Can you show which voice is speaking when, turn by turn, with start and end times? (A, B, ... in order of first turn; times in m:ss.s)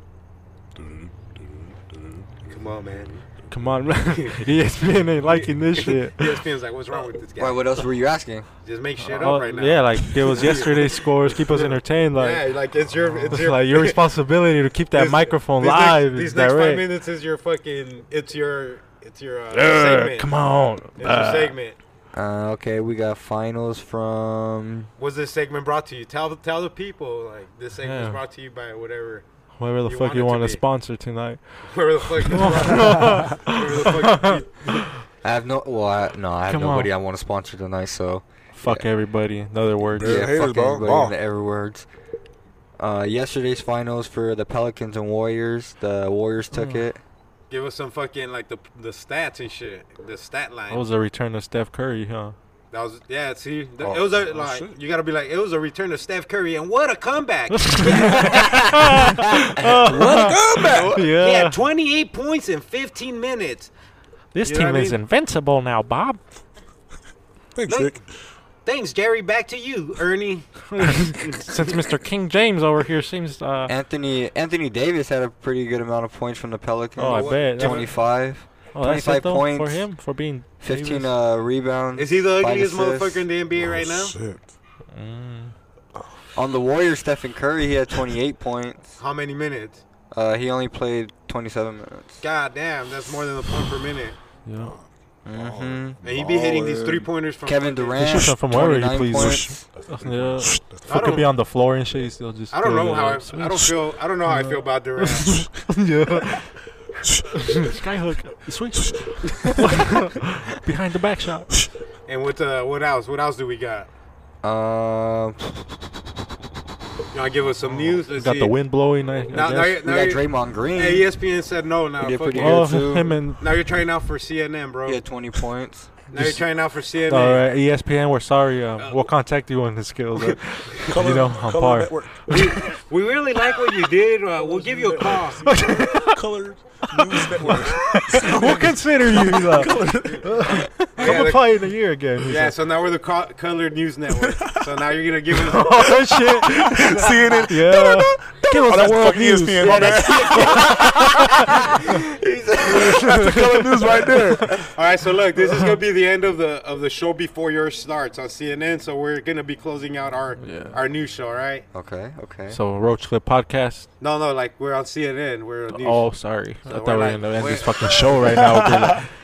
0:00.8-0:02.3 A
0:02.5-0:03.2 B
0:03.5-0:06.3 C
0:04.1-0:04.5 B
0:05.7-0:07.8 B
0:07.4-0:08.5 D
0:08.6-0:14.0 B
0:09.0-0:12.5 C
0:13.2-0:16.8 C
0:14.9-0:20.3 B
0:19.5-0:21.5 C
0:21.0-0:21.8 B
0:22.1-0:24.9 D
0:25.0-0:29.2 B
0:27.8-0:28.2 C
0:29.6-0:34.4 C
0:29.8-0:30.6 B
0:31.6-0:34.9 B
0:35.2-0:38.9 D
0:36.4-0:36.9 C
0:38.6-0:40.3 C
0:39.9-0:41.1 A
0:40.0-0:41.8 D
0:42.8-0:47.0 D
0:46.5-0:46.9 C
0:47.5-0:50.8 B
0:50.7-0:52.3 C
0:52.7-0:58.8 B
0:53.8-0:54.8 A
0:57.5-1:01.6 C
0:59.6-1:01.0 A
1:00.6-1:03.7 B
1:04.3-1:06.2 C
1:04.4-1:05.0 B
1:07.5-1:08.1 A
1:07.6-1:08.0 B
1:08.6-1:11.8 B
1:10.7-1:13.7 C
1:13.7-1:19.8 D
1:17.0-1:18.0 C
1:17.0-1:17.9 B
1:18.7-1:21.1 C
1:20.6-1:23.3 D
1:22.0-1:24.1 B
1:23.6-1:24.5 A
1:24.9-1:25.5 C
1:26.3-1:29.0 D
1:29.0-1:29.8 B
1:30.1-1:32.2 D
1:32.2-1:34.2 B
1:34.4-1:34.7 C
1:34.6-1:37.1 A
1:35.2-1:36.0 D
1:36.0-1:38.2 B
1:37.4-1:39.6 D
1:38.0-1:46.5 C
1:39.1-1:41.1 A
1:40.9-1:41.3 B
1:42.5-1:45.3 B
1:47.3-1:51.5 C
1:48.8-1:49.6 A
1:52.1-1:53.9 B
1:54.4-1:55.6 D
1:57.1-1:58.6 B
1:57.8-1:59.8 C
1:59.3-2:02.6 B
1:59.8-2:01.1 D
2:02.0-2:03.1 D
2:02.3-2:03.5 C
2:03.4-2:05.0 B
2:04.8-2:05.9 D
2:06.1-2:06.4 C
2:06.1-2:07.5 B
2:07.1-2:12.4 C
2:08.8-2:09.1 B
2:10.2-2:10.9 B
2:10.8-2:12.6 A
2:12.3-2:15.5 B
2:14.4-2:20.3 A
2:15.4-2:16.2 C
2:16.9-2:22.5 C
2:21.0-2:21.5 B
2:21.0-2:21.3 A
2:22.2-2:25.9 B
2:24.2-2:24.6 A
2:25.4-2:31.8 C
2:25.8-2:30.7 A
2:29.6-2:33.2 D
2:32.6-2:34.7 A
2:33.0-2:34.2 C
2:34.7-2:41.6 B
2:35.4-2:35.7 C
2:40.4-2:40.8 C
2:41.7-2:42.6 D
2:42.5-2:43.9 C
2:44.0-2:46.1 B
2:45.7-2:49.1 C
2:46.6-2:48.6 B